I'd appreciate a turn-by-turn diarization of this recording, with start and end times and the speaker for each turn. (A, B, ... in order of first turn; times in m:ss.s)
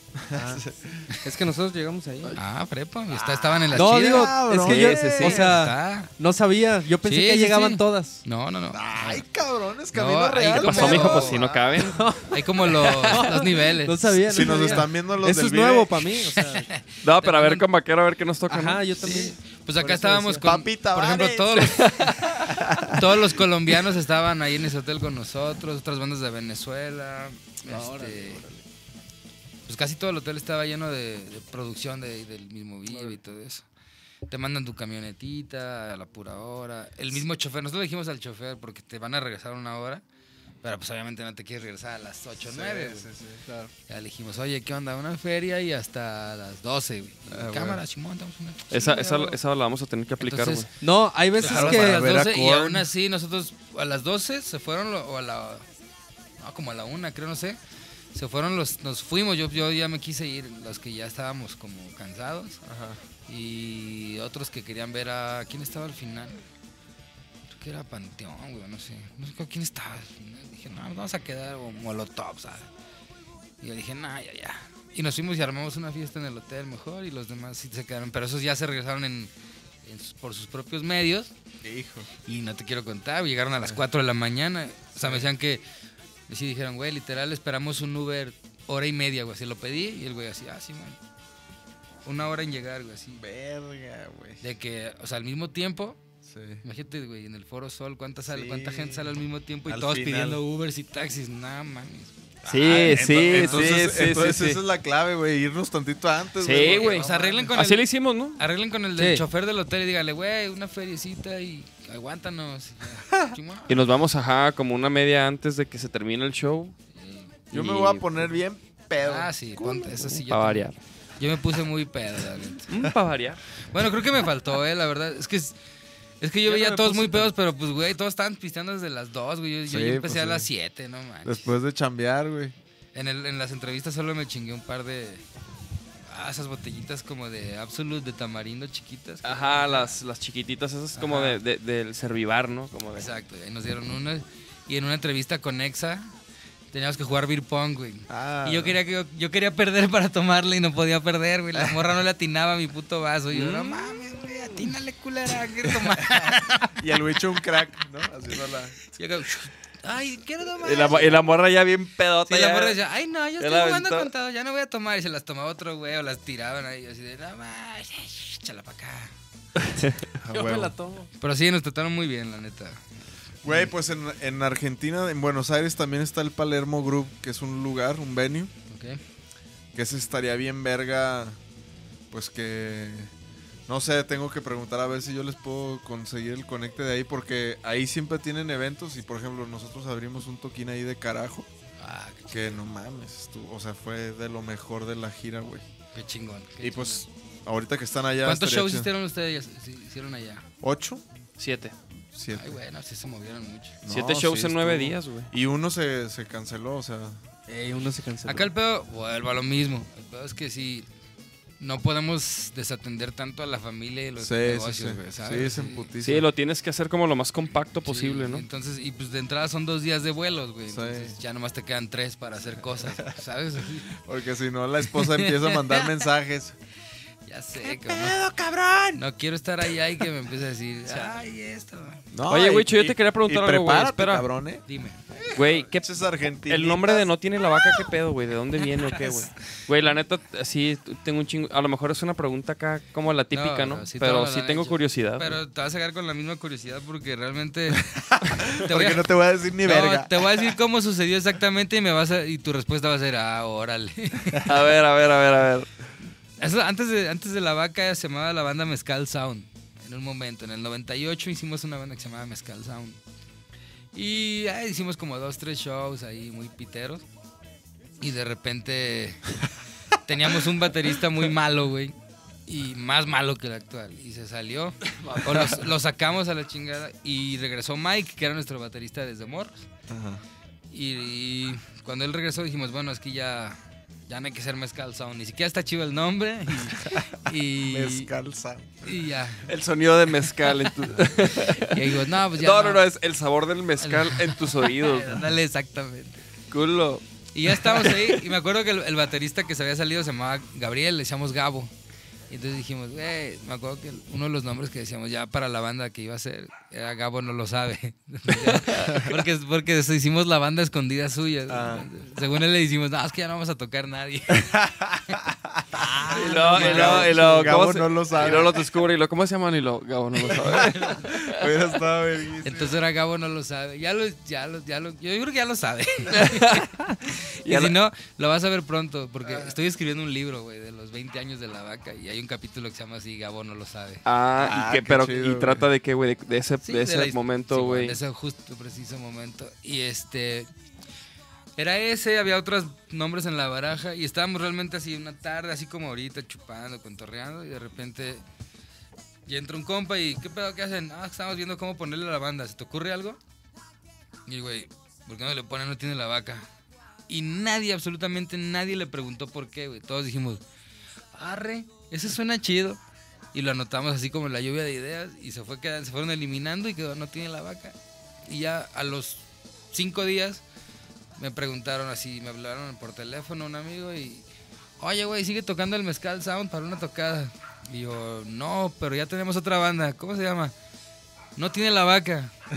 0:00.2-0:01.1 A
0:00.3-0:00.6 B
0:01.2-0:02.4 B
0:02.4-0:06.1 C
0:03.1-0:05.5 A
0:03.7-0:08.2 B
0:04.6-0:05.3 D
0:07.0-0:09.2 C
0:08.7-0:11.7 A
0:09.9-0:11.4 C
0:10.5-0:12.1 D
0:11.8-0:16.7 B
0:12.3-0:14.8 C
0:12.8-0:13.3 D
0:14.3-0:16.0 A
0:16.4-0:17.6 C
0:17.0-0:19.3 D
0:18.5-0:20.5 B
0:19.0-0:28.4 C
0:20.4-0:23.3 A
0:21.6-0:22.4 D
0:27.7-0:28.6 B
0:29.7-0:33.6 C
0:32.9-0:33.2 B
0:34.3-0:40.0 C
0:40.6-0:43.1 C
0:42.4-0:43.4 A
0:43.4-0:43.7 B
0:43.9-0:49.4 C
0:47.3-0:47.8 A
0:48.7-0:50.7 D
0:50.2-0:50.7 C
0:50.8-0:52.1 B
0:51.4-0:55.7 C
0:51.4-0:52.9 A
0:56.4-0:57.6 C
0:58.1-1:02.6 C
1:02.6-1:03.0 A
1:03.3-1:06.4 C
1:07.5-1:12.7 C
1:13.6-1:19.3 C
1:19.8-1:21.3 C
1:21.6-1:22.1 A
1:22.3-1:25.6 C
1:25.0-1:25.3 A
1:26.3-1:31.0 C
1:32.0-1:33.2 C
1:33.2-1:34.4 A
1:34.4-1:36.0 C
1:36.2-1:36.6 A
1:36.6-1:43.6 C
1:38.3-1:39.1 A
1:39.7-1:40.4 A
1:42.5-1:44.6 D
1:42.5-1:47.5 A
1:46.4-1:48.4 D
1:46.6-1:47.8 C
1:48.4-1:53.7 C
1:49.0-1:49.2 B
1:53.7-1:56.8 D
1:56.9-1:57.4 C
1:57.5-1:58.3 D
1:57.5-2:00.0 A
1:59.0-2:02.7 C
2:00.0-2:00.8 D
2:02.7-2:03.4 D
2:03.7-2:05.6 C
2:06.2-2:11.6 C
2:06.5-2:07.2 A
2:09.7-2:10.5 A
2:11.2-2:12.6 A
2:12.9-2:15.2 C
2:16.1-2:20.0 C
2:19.2-2:23.1 D
2:21.0-2:21.4 C
2:22.9-2:26.1 C
2:26.7-2:36.8 C
2:28.1-2:28.8 A
2:33.3-2:34.0 D
2:36.7-2:38.8 A
2:38.9-2:41.2 C
2:40.6-2:42.8 D
2:42.3-2:49.1 C
2:43.4-2:44.1 D
2:50.2-2:50.7 A
2:50.3-2:51.1 B
2:51.2-2:52.9 C
2:53.4-2:58.5 A
2:58.7-2:59.0 C
2:59.7-3:01.4 A
3:02.1-3:03.1 A
3:03.7-3:11.5 A
3:11.8-3:12.6 C
3:12.3-3:15.7 A
3:15.9-3:17.0 C
3:16.6-3:18.9 A
3:18.2-3:20.4 C
3:20.6-3:21.0 A
3:21.4-3:21.7 D
3:22.1-3:22.6 A
3:22.4-3:23.8 C
3:23.8-3:27.2 A
3:23.9-3:25.3 D
3:27.5-3:28.5 B
3:28.2-3:30.9 C
3:31.6-3:35.9 C
3:34.2-3:36.3 A
3:36.0-3:38.4 D
3:37.8-3:44.0 C
3:40.7-3:41.2 A
3:42.8-3:43.1 A
3:43.9-3:46.6 A
3:44.9-3:46.0 C
3:47.3-3:48.2 C
3:47.6-3:49.0 A
3:48.9-3:52.0 C
3:52.1-3:57.9 A
3:52.3-3:54.3 D
3:54.7-3:55.0 C
3:55.3-3:55.9 D
3:56.5-4:05.4 D
4:03.3-4:07.8 C
4:07.9-4:10.3 A
4:08.4-4:14.4 C
4:14.4-4:15.7 D
4:16.4-4:23.0 C
4:23.9-4:27.0 C
4:28.0-4:29.3 C
4:30.0-4:32.0 C
4:32.5-4:39.7 C
4:39.9-4:40.2 A
4:40.7-4:43.6 C
4:44.1-4:48.1 C
4:46.8-4:49.0 A
4:48.8-4:49.5 C
4:49.5-4:55.3 D
4:51.4-4:52.8 C
4:53.8-4:56.2 C
4:56.5-4:58.2 D
4:57.3-5:01.7 C
5:02.3-5:15.2 C
5:08.4-5:09.1 D
5:11.5-5:11.9 A
5:14.3-5:18.6 A
5:15.7-5:17.6 C
5:16.1-5:21.5 D
5:20.3-5:22.8 A
5:20.4-5:21.2 C
5:22.4-5:34.0 C
5:26.1-5:27.8 D
5:29.2-5:29.5 A
5:34.0-5:38.0 D
5:34.4-5:35.7 A
5:36.6-5:40.5 C
5:41.6-5:48.2 C
5:49.3-5:53.2 C
5:54.3-5:56.5 C
5:57.1-6:00.4 C
6:01.1-6:02.8 C
6:03.3-6:10.4 C
6:11.2-6:14.3 C
6:14.8-6:20.5 C
6:21.4-6:22.3 C